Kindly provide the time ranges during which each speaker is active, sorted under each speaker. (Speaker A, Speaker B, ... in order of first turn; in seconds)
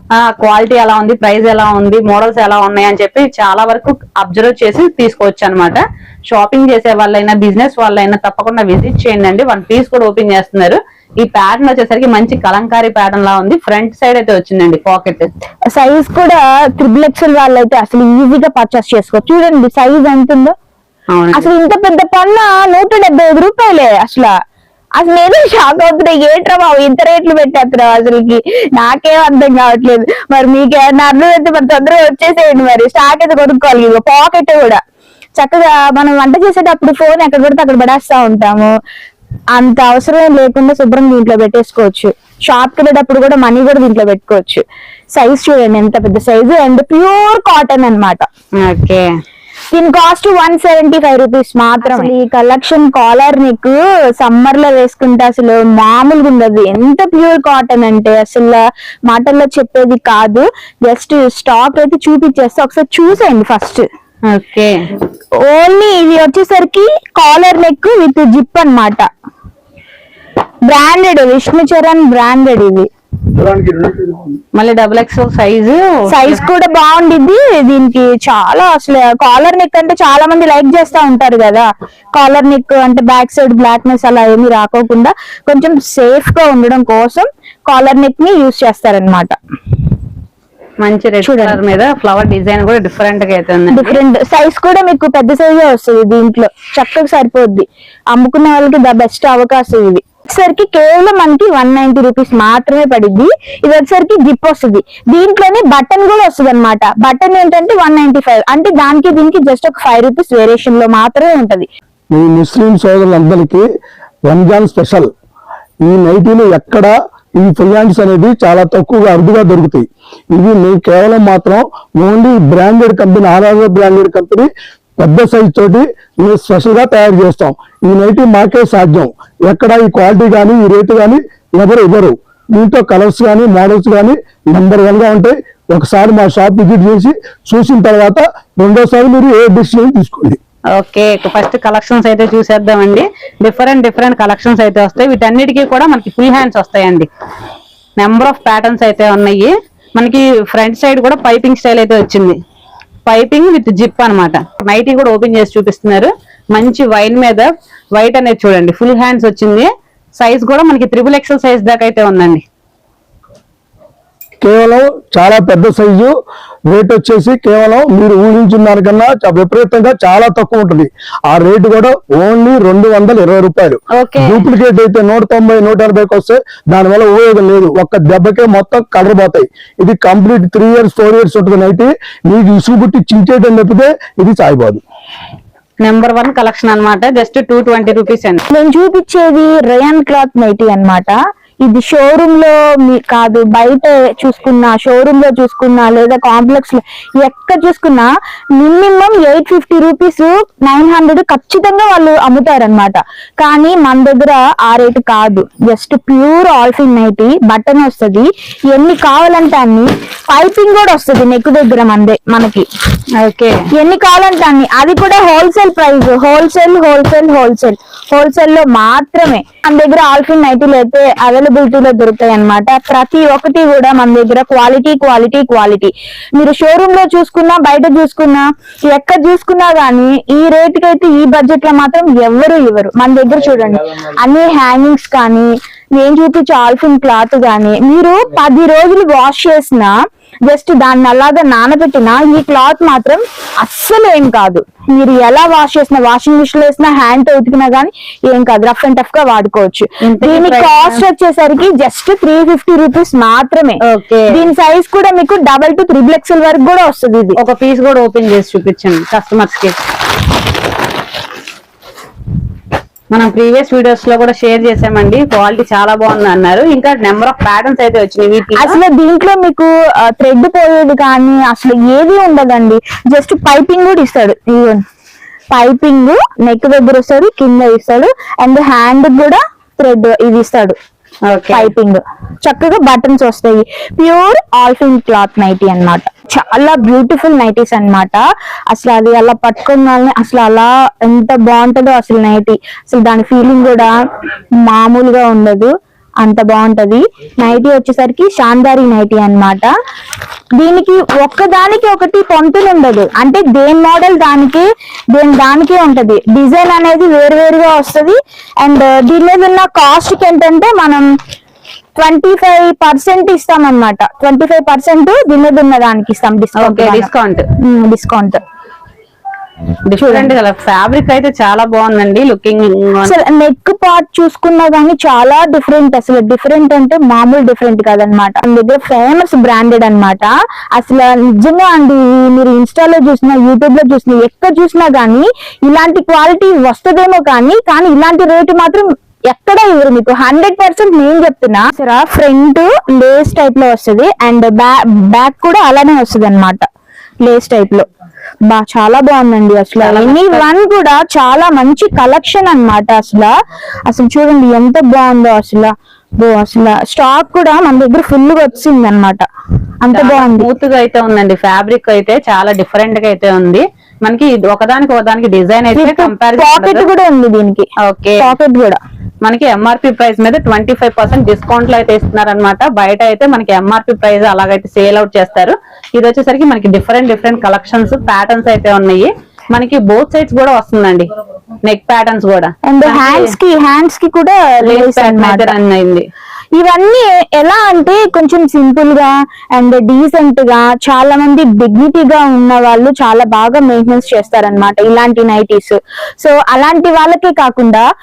Speaker A: 0.2-15.3, 21.1-21.5, 48.6-49.1, 64.3-64.8, 74.6-76.4, 90.8-94.0, 140.8-147.1, 148.0-152.3, 153.1-159.7, 160.2-162.4, 174.0-174.5, 185.8-188.4, 213.2-213.6, 250.1-251.0, 253.9-254.4, 257.4-259.8, 263.1-268.8, 281.3-281.7, 316.6-317.5, 319.9-323.2, 349.8-350.4, 359.9-366.9, 367.8-368.2, 369.2-381.1, 381.7-383.4, 384.7-386.1
Speaker B: 15.7-20.5, 21.3-24.3, 25.0-34.8, 35.4-38.7, 39.6-48.2, 49.7-63.9, 65.4-69.1, 70.7-72.9, 76.1-89.3, 91.2-91.6, 93.7-111.7, 188.5-212.7, 213.7-239.9, 240.5-253.8, 254.3-257.4, 268.6-274.8, 275.5-280.8, 281.5-293.9, 294.6-299.7, 300.6-311.0, 312.0-317.1, 317.6-318.4, 320.0-320.3, 323.1-346.6, 347.2-347.9, 348.5-353.3, 353.9-359.2, 359.8-360.5, 365.8-367.6, 368.2-368.8, 382.7-385.5, 386.6-397.8
Speaker C: 73.5-74.2, 112.1-113.7, 114.3-115.1, 115.9-140.4, 164.4-166.1, 166.7-184.8